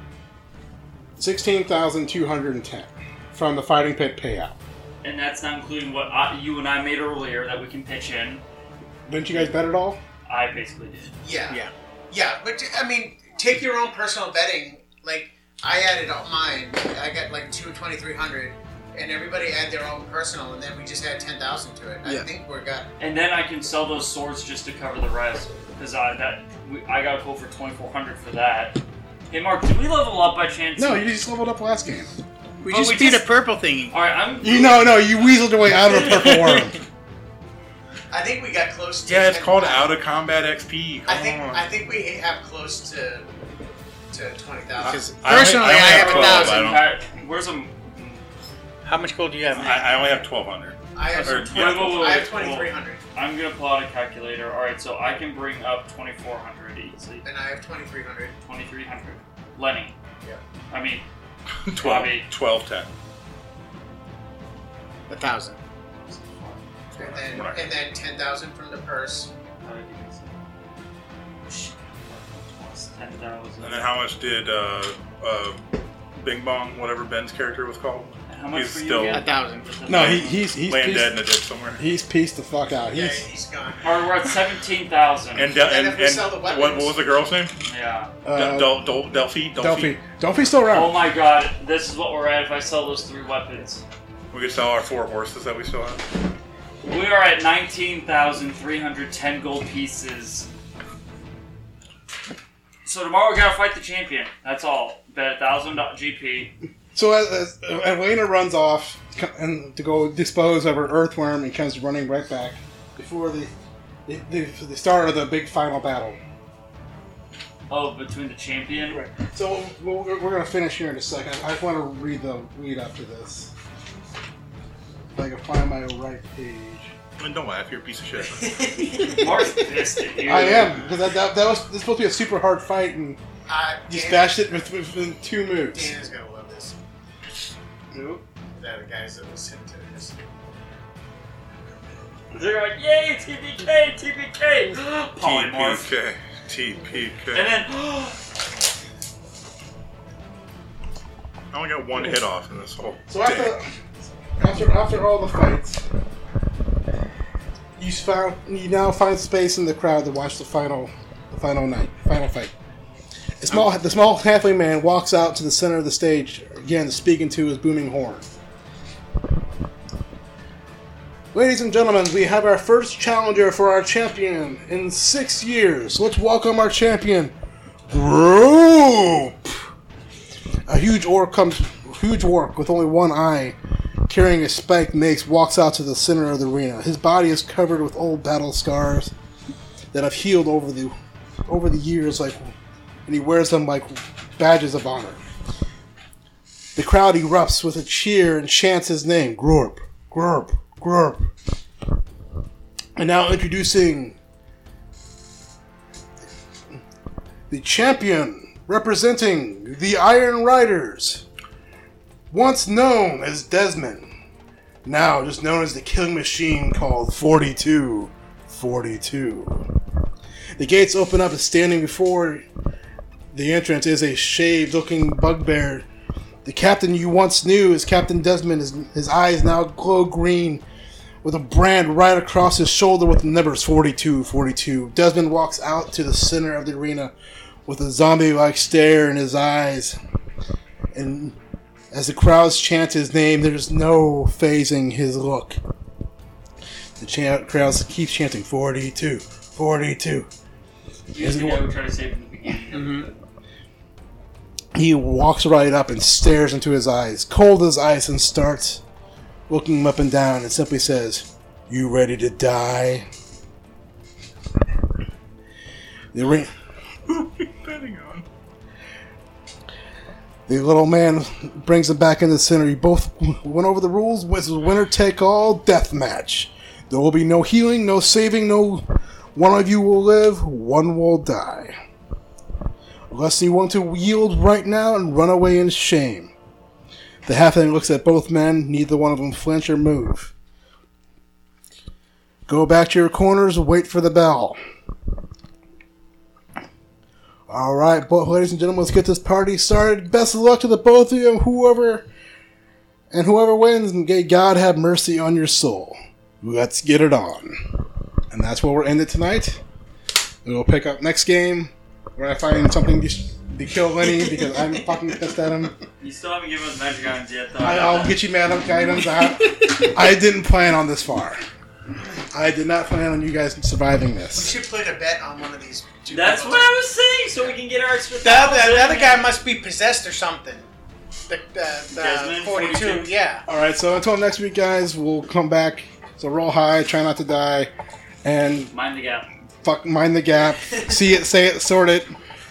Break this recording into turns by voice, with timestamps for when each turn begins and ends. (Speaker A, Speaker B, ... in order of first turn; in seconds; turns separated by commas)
Speaker A: 1.2-4.5, Speaker B: 5.0-8.4, Speaker A: 9.1-10.0, Speaker B: 10.3-11.1, Speaker C: 11.2-22.9, Speaker B: 23.0-31.1, Speaker A: 30.8-32.1, Speaker D: 32.6-33.9, Speaker B: 32.6-33.3, Speaker B: 33.9-35.1, Speaker A: 34.4-36.8, Speaker D: 36.0-36.6, Speaker C: 38.1-39.9, Speaker E: 39.0-41.7, Speaker C: 41.1-43.3, Speaker C: 44.1-46.6, Speaker E: 44.8-46.9, Speaker D: 44.8-46.1, Speaker B: 45.7-48.2, Speaker D: 48.8-49.9, Speaker E: 49.5-52.3, Speaker B: 49.6-49.9, Speaker C: 50.9-53.0, Speaker B: 51.1-57.2, Speaker C: 57.2-58.3, Speaker B: 58.4-60.0, Speaker B: 60.7-61.0, Speaker E: 61.6-62.9, Speaker B: 61.7-62.3, Speaker D: 65.1-65.6, Speaker C: 65.1-65.5, Speaker B: 66.1-67.6, Speaker C: 66.9-69.3, Speaker B: 69.6-70.4, Speaker B: 71.5-73.9, Speaker E: 73.6-79.2, Speaker B: 78.3-80.5, Speaker D: 79.1-79.7, Speaker E: 79.8-81.8, Speaker A: 79.9-81.2, Speaker A: 81.8-83.2, Speaker C: 82.9-84.0, Speaker B: 83.8-85.5, Speaker E: 85.3-87.5, Speaker C: 85.5-87.0, Speaker B: 87.6-88.1, Speaker A: 88.2-88.8, Speaker E: 88.3-90.0, Speaker A: 89.6-91.0, Speaker B: 90.7-93.8, Speaker E: 94.3-96.0, Speaker B: 96.8-100.5, Speaker B: 102.8-106.5, Speaker A: 106.9-113.5, Speaker A: 114.0-116.2, Speaker B: 117.7-119.0, Speaker A: 118.9-123.5, Speaker A: 125.1-126.9, Speaker E: 127.2-128.9, Speaker C: 128.3-129.3, Speaker B: 129.0-130.8, Speaker A: 130.2-133.2, Speaker C: 133.5-134.5, Speaker A: 133.9-135.9, Speaker C: 135.7-136.8, Speaker A: 137.9-138.2, Speaker C: 138.6-140.2, Speaker B: 142.3-145.9, Speaker E: 145.2-147.5, Speaker B: 147.3-148.2, Speaker E: 151.5-153.5, Speaker A: 153.1-153.7, Speaker A: 154.4-155.8, Speaker A: 157.8-162.5, Speaker A: 163.4-168.3, Speaker A: 171.3-177.3, Speaker A: 177.9-179.7, Speaker A: 180.7-183.6, Speaker A: 184.1-189.1, Speaker A: 189.9-195.2, Speaker A: 196.8-201.3, Speaker A: 202.9-204.2, Speaker A: 207.5-211.2, Speaker A: 212.3-214.1, Speaker A: 214.8-219.7, Speaker A: 220.6-222.4, Speaker A: 223.3-225.8, Speaker A: 226.4-230.6, Speaker A: 231.2-237.1, Speaker A: 237.7-240.0, Speaker A: 240.9-241.3, Speaker A: 241.9-245.6, Speaker A: 247.0-250.3, Speaker B: 251.1-253.2, Speaker A: 251.2-251.6, Speaker D: 252.7-253.1, Speaker A: 254.7-258.8, Speaker A: 259.5-263.1, Speaker A: 266.1-266.5, Speaker E: 267.1-268.2, Speaker A: 270.5-281.7, Speaker A: 283.1-286.3, Speaker A: 287.2-290.3, Speaker A: 292.5-294.6, Speaker A: 297.5-302.1, Speaker A: 303.1-309.6, Speaker A: 310.4-315.8, Speaker B: 316.0-318.2, Speaker A: 317.6-321.4, Speaker A: 322.3-324.5, Speaker C: 324.3-326.8, Speaker B: 326.1-329.3, Speaker C: 328.2-330.7, Speaker C: 331.3-333.4, Speaker D: 331.9-333.4, Speaker B: 331.9-333.1, Speaker A: 333.4-337.7, Speaker A: 338.2-338.7, Speaker B: 338.7-339.3, Speaker A: 339.6-342.1